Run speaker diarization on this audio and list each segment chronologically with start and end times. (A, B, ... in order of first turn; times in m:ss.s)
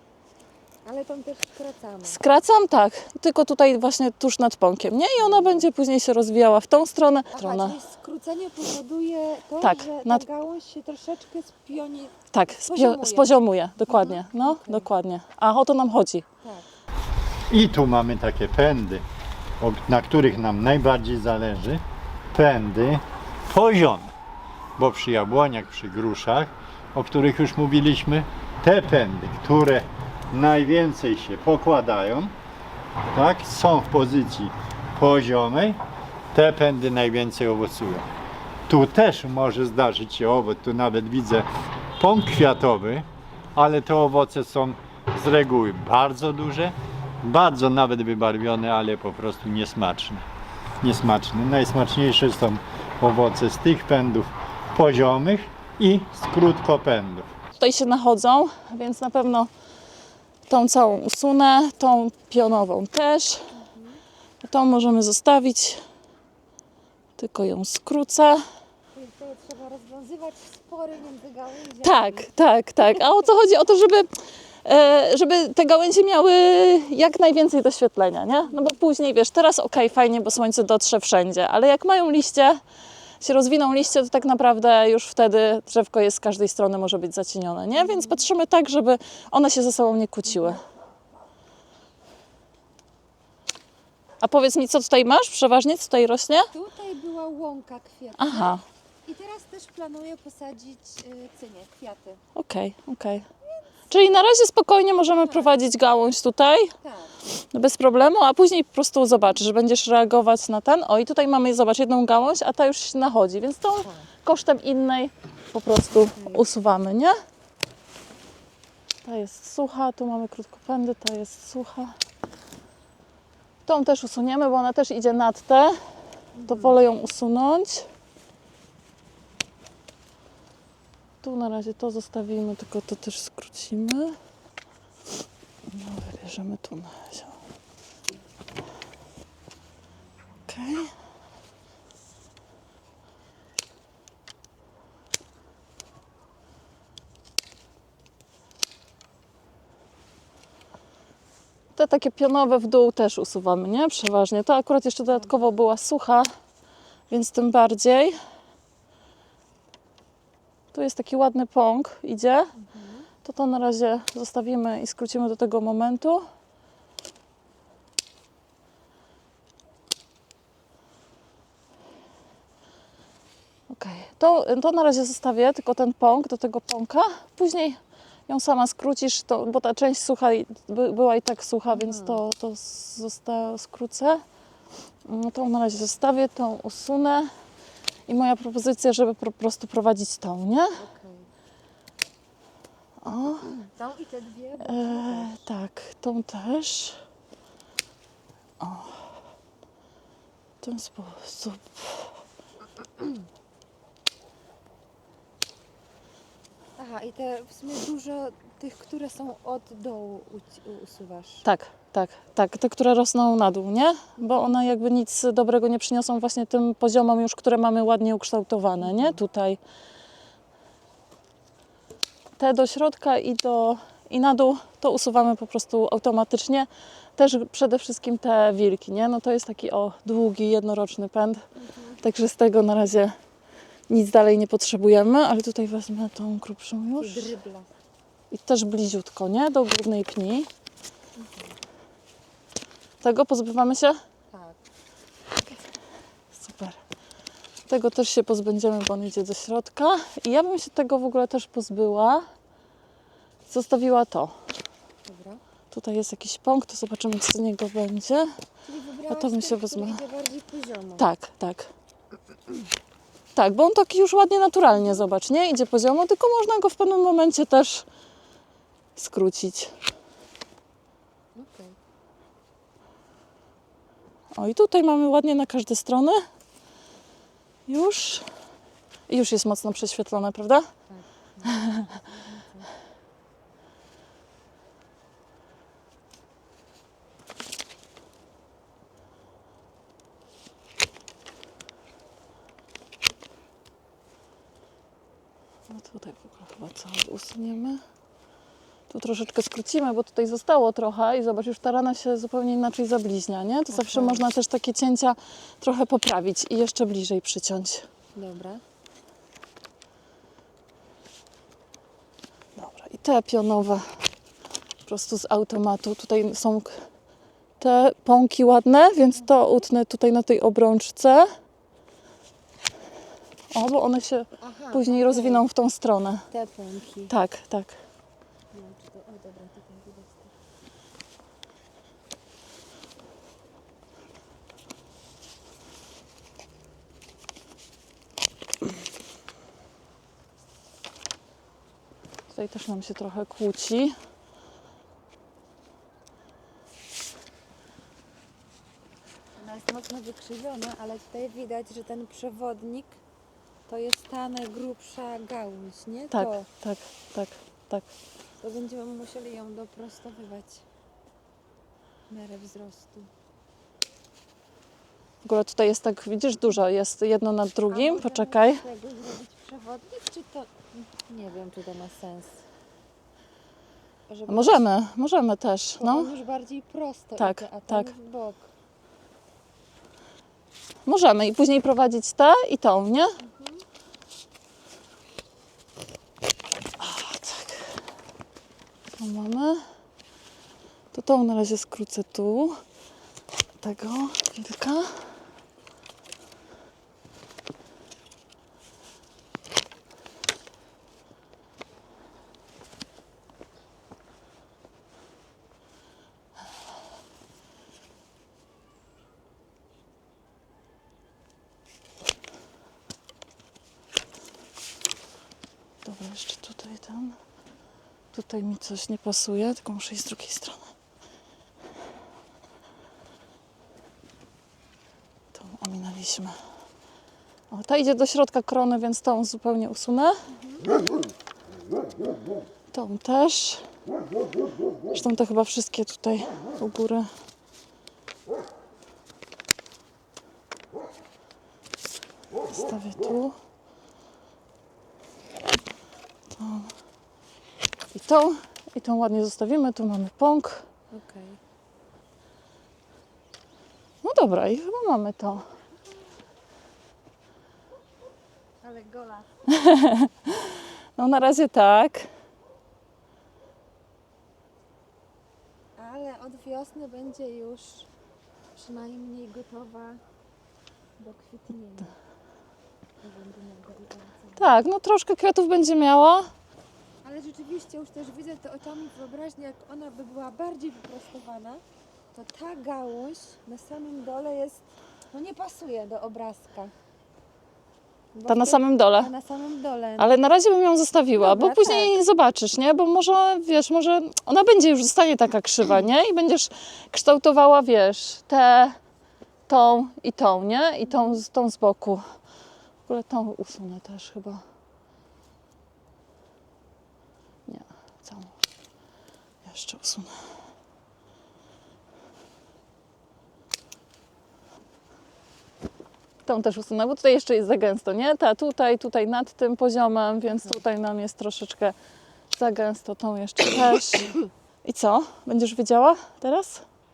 0:00.8-0:02.2 A
0:02.0-0:07.7 B
0:05.2-0:05.7 A
0:07.3-0:12.2 A
0:09.6-0:10.2 B
0:12.3-0:16.2 B
0:12.7-0:13.4 A
0:13.9-0:14.9 A
0:17.5-0:19.0 C
0:19.6-0:21.8 C
0:22.3-0:24.1 C
0:24.8-0:32.3 C
0:33.1-0:35.8 C
0:36.3-0:38.1 C
0:38.7-0:50.2 C
0:50.8-0:57.3 C
0:57.5-0:59.5 B
1:00.5-1:03.4 B
1:03.5-1:04.0 A
1:04.4-1:05.8 B
1:07.2-1:08.4 B
1:08.9-1:12.3 A
1:11.8-1:14.1 B
1:14.6-1:22.6 B
1:23.2-1:30.6 B
1:27.8-1:28.2 A
1:34.2-1:36.5 B
1:36.5-1:42.2 A
1:38.2-1:38.6 B
1:42.3-1:43.2 B
1:43.9-1:44.3 A
1:43.9-1:46.7 B
1:45.0-1:45.6 A
1:46.8-1:47.1 A
1:47.4-1:57.2 B
1:56.2-1:56.4 A
1:59.0-2:01.9 B
2:03.6-2:05.8 B
2:06.4-2:06.8 A
2:06.5-2:07.9 B
2:11.2-2:14.2 B
2:15.7-2:17.3 B
2:20.5-2:20.9 B
2:31.7-2:36.3 B
2:35.1-2:35.4 A
2:37.1-2:38.2 B
2:40.7-2:42.5 B
2:42.6-2:43.1 A
2:43.2-2:46.2 B
2:53.7-3:04.2 B
3:01.7-3:02.2 A
3:05.0-3:07.3 B
3:08.1-3:10.8 B
3:10.8-3:11.3 A
3:13.0-3:13.5 B
3:13.5-3:15.4 A
3:14.6-3:17.0 B
3:18.6-3:18.9 B
3:20.6-3:21.7 B
3:26.8-3:31.4 A
3:31.4-3:39.6 B
3:38.8-3:39.2 A
3:42.4-3:51.4 B
3:52.0-3:53.1 B
3:53.9-3:57.3 B
3:57.0-3:57.7 A
3:58.3-4:00.5 B
4:01.2-4:01.6 A
4:03.0-4:04.0 B
4:04.3-4:04.6 A
4:06.3-4:06.8 B
4:07.7-4:12.2 B
4:13.5-4:14.3 B
4:15.0-4:15.4 A
4:15.7-4:18.3 B
4:18.6-4:21.0 A
4:19.1-4:20.0 B
4:21.0-4:21.7 B
4:23.3-4:27.8 B
4:29.0-4:29.7 B
4:31.3-4:31.7 A
4:34.3-4:36.2 B
4:37.7-4:38.2 B
4:39.1-4:40.7 B
4:40.9-4:42.7 A
4:41.4-4:41.8 B
4:55.7-4:57.8 B
4:58.9-5:07.8 B
5:03.7-5:04.2 A
5:08.1-5:08.6 A
5:12.6-5:13.9 B
5:14.8-5:16.7 B
5:17.6-5:21.3 B
5:23.5-5:26.2 B
5:24.4-5:25.4 A
5:26.3-5:27.1 A
5:27.1-5:27.8 B
5:28.5-5:30.3 A
5:42.3-5:43.9 B
5:49.4-5:53.0 A
5:53.7-5:56.5 A
5:56.1-5:57.8 B
5:58.4-6:00.6 A
6:02.1-6:03.1 A
6:05.2-6:08.6 B
6:07.7-6:12.4 A
6:14.1-6:14.7 A
6:14.3-6:16.1 B
6:15.8-6:18.5 A
6:17.2-6:17.9 B
6:20.8-6:23.1 B
6:23.2-6:23.6 A
6:26.8-6:27.6 B
6:29.0-6:29.6 B
6:30.9-6:32.6 B
6:33.6-6:34.9 B
6:55.8-6:57.2 B
6:58.1-7:00.7 B
7:05.3-7:06.4 B
7:07.5-7:10.2 B
7:12.7-7:13.6 B
7:14.9-7:17.1 B
7:22.5-7:23.3 B
7:26.4-7:26.7 B
7:27.9-7:30.6 B
7:30.9-7:31.4 A
7:34.0-7:35.4 B
7:38.6-7:39.3 A
7:39.5-7:42.1 B
7:45.8-7:47.9 A
7:48.6-7:50.0 A
7:51.0-7:51.9 A
7:53.0-7:54.6 A
7:54.4-7:56.3 B
7:57.0-8:01.6 A
8:02.1-8:06.7 A
8:08.1-8:10.2 A
8:08.3-8:09.1 B
8:10.0-8:18.8 B
8:11.2-8:12.0 A
8:19.5-8:22.0 B
8:22.9-8:24.4 B
8:27.5-8:28.3 B
8:29.4-8:30.1 B
8:36.2-8:41.7 B
8:42.3-8:46.6 B